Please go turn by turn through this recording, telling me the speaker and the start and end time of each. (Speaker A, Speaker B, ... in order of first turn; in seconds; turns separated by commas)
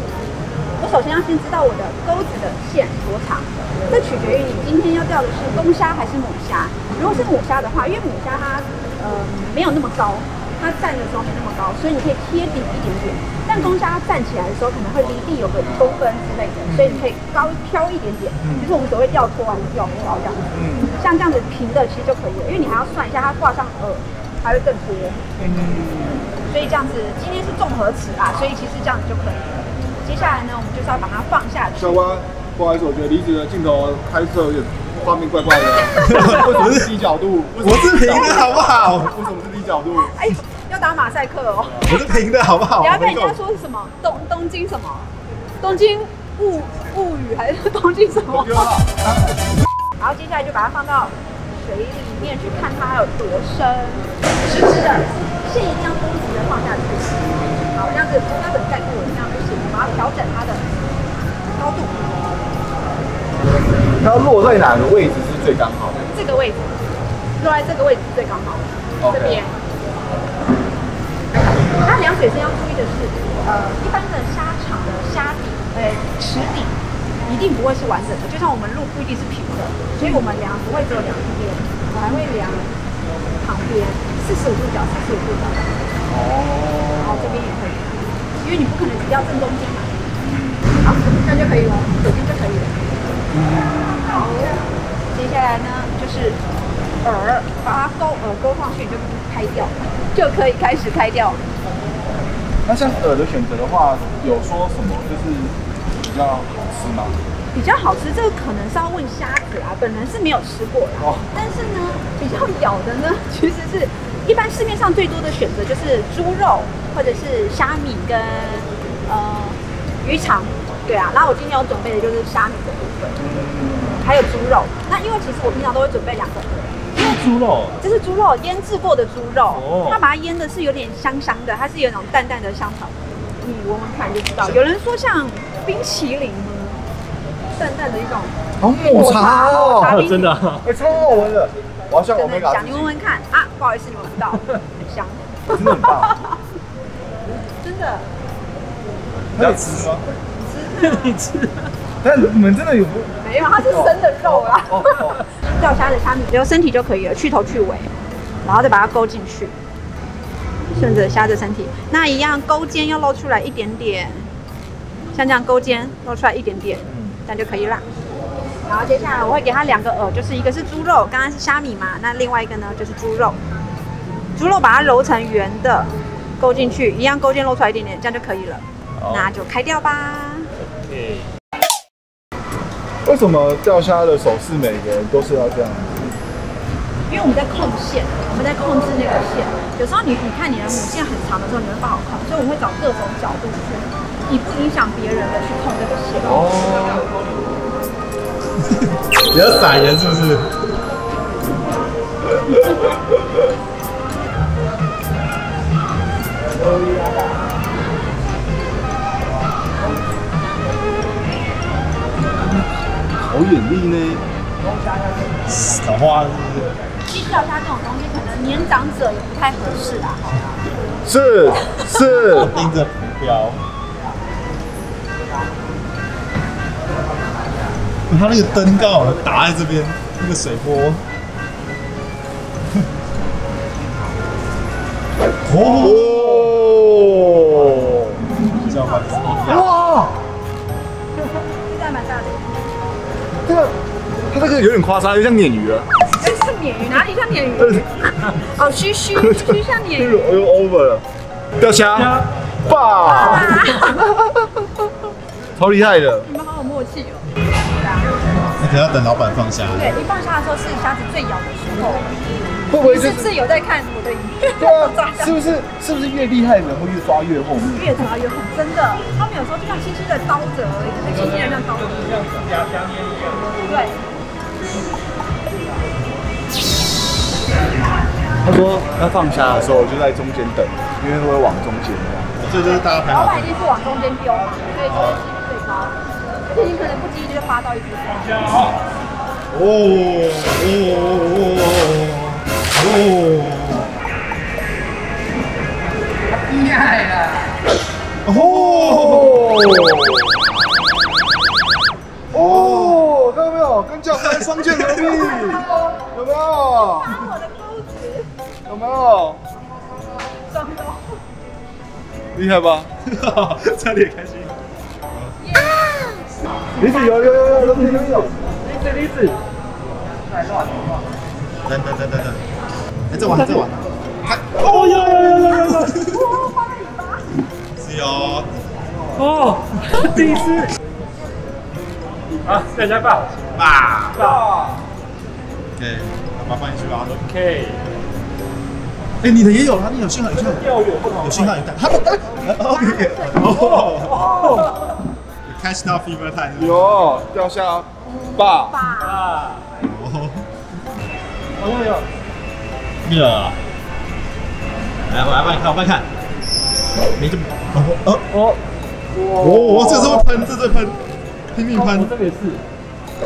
Speaker A: 0.8-25.2, Speaker B: 16.7-17.0, Speaker B: 18.4-18.7, Speaker B: 20.5-20.9, Speaker B: 25.4-26.3, Speaker A: 26.4-32.0, Speaker B: 31.8-40.1, Speaker A: 35.8-36.7, Speaker C: 36.0-36.9, Speaker C: 37.6-39.2, Speaker A: 38.1-38.6, Speaker A: 40.0-42.0, Speaker C: 41.8-43.4, Speaker A: 42.8-45.1, Speaker A: 45.6-48.8, Speaker B: 48.3-49.1, Speaker A: 50.0-60.6, Speaker A: 61.6-62.5, Speaker B: 64.0-66.0, Speaker A: 66.1-66.7, Speaker A: 67.4-69.6, Speaker B: 69.0-69.4, Speaker A: 71.7-82.7, Speaker A: 83.4-85.8, Speaker B: 86.1-87.5, Speaker A: 87.0-90.1, Speaker A: 90.8-92.8, Speaker B: 93.3-94.2, Speaker A: 94.1-96.4, Speaker A: 97.0-101.4, Speaker B: 102.7-107.2, Speaker A: 107.5-123.2, Speaker B: 111.0-111.2, Speaker B: 123.2-124.0, Speaker A: 124.0-126.8, Speaker D: 127.0-127.8, Speaker A: 127.8-136.8, Speaker D: 129.5-130.0, Speaker A: 137.6-140.3, Speaker B: 138.6-140.0, Speaker D: 139.8-140.6, Speaker B: 140.6-142.9, Speaker A: 142.2-146.4, Speaker B: 145.5-146.1, Speaker A: 147.6-148.0, Speaker B: 149.3-150.0, Speaker A: 150.3-151.2, Speaker D: 150.8-151.7, Speaker B: 152.0-155.2, Speaker A: 153.2-157.9, Speaker A: 158.4-159.5, Speaker A: 160.7-164.3, Speaker A: 165.1-167.8, Speaker B: 166.9-167.2, Speaker A: 168.7-173.4, Speaker A: 174.3-180.5, Speaker C: 179.0-179.3, Speaker D: 180.8-181.2, Speaker B: 183.0-186.1, Speaker A: 187.1-196.5, Speaker B: 196.2-197.1, Speaker C: 199.2-200.5, Speaker B: 213.2-214.2, Speaker C: 215.5-216.7, Speaker A: 217.1-220.5, Speaker B: 221.0-222.6, Speaker C: 222.3-223.6, Speaker C: 228.1-231.0, Speaker C: 235.4-236.5, Speaker B: 235.6-238.2, Speaker C: 237.6-239.8, Speaker A: 238.5-239.6, Speaker D: 239.2-239.6, Speaker B: 239.5-240.1, Speaker A: 241.4-242.8, Speaker B: 243.4-243.7, Speaker B: 244.3-245.9, Speaker A: 246.2-250.2, Speaker B: 247.6-247.8, Speaker B: 249.1-251.0, Speaker B: 251.6-254.5, Speaker A: 253.0-254.1, Speaker B: 255.5-256.3, Speaker A: 256.2-258.1, Speaker C: 258.6-259.9, Speaker A: 259.7-262.1, Speaker B: 262.7-263.3, Speaker A: 262.8-265.4, Speaker B: 264.6-267.9, Speaker A: 267.7-272.3, Speaker A: 273.6-274.0, Speaker B: 278.4-282.3, Speaker C: 282.3-283.5, Speaker A: 282.7-288.5, Speaker C: 284.9-285.2, Speaker C: 289.5-293.9, Speaker C: 298.2-299.6, Speaker B: 298.3-300.4, Speaker B: 302.3-307.1, Speaker C: 302.3-303.0, Speaker C: 304.2-305.5, Speaker A: 307.0-308.3, Speaker B: 308.7-309.4, Speaker A: 310.4-311.2, Speaker B: 312.3-312.9, Speaker C: 313.0-314.5, Speaker A: 315.4-317.9, Speaker B: 316.8-318.4, Speaker D: 318.6-319.4, Speaker C: 321.6-322.4, Speaker C: 323.1-326.4, Speaker D: 324.6-326.0, Speaker A: 326.0-327.2, Speaker C: 327.8-328.6, Speaker D: 329.1-330.7, Speaker D: 332.4-333.5, Speaker C: 333.6-334.2, Speaker D: 334.1-334.4, Speaker C: 335.8-337.1, Speaker D: 337.0-337.8, Speaker C: 339.2-344.5, Speaker D: 340.3-341.6, Speaker A: 342.5-343.9, Speaker D: 344.1-344.7, Speaker C: 345.4-347.1, Speaker B: 346.6-348.8, Speaker A: 348.7-349.3, Speaker D: 348.9-349.7, Speaker C: 349.8-350.4, Speaker D: 351.6-352.1, Speaker C: 353.0-353.6, Speaker C: 355.1-356.1, Speaker C: 357.1-358.2, Speaker D: 358.3-358.6, Speaker B: 359.2-360.2, Speaker C: 359.4-362.1, Speaker D: 361.7-362.6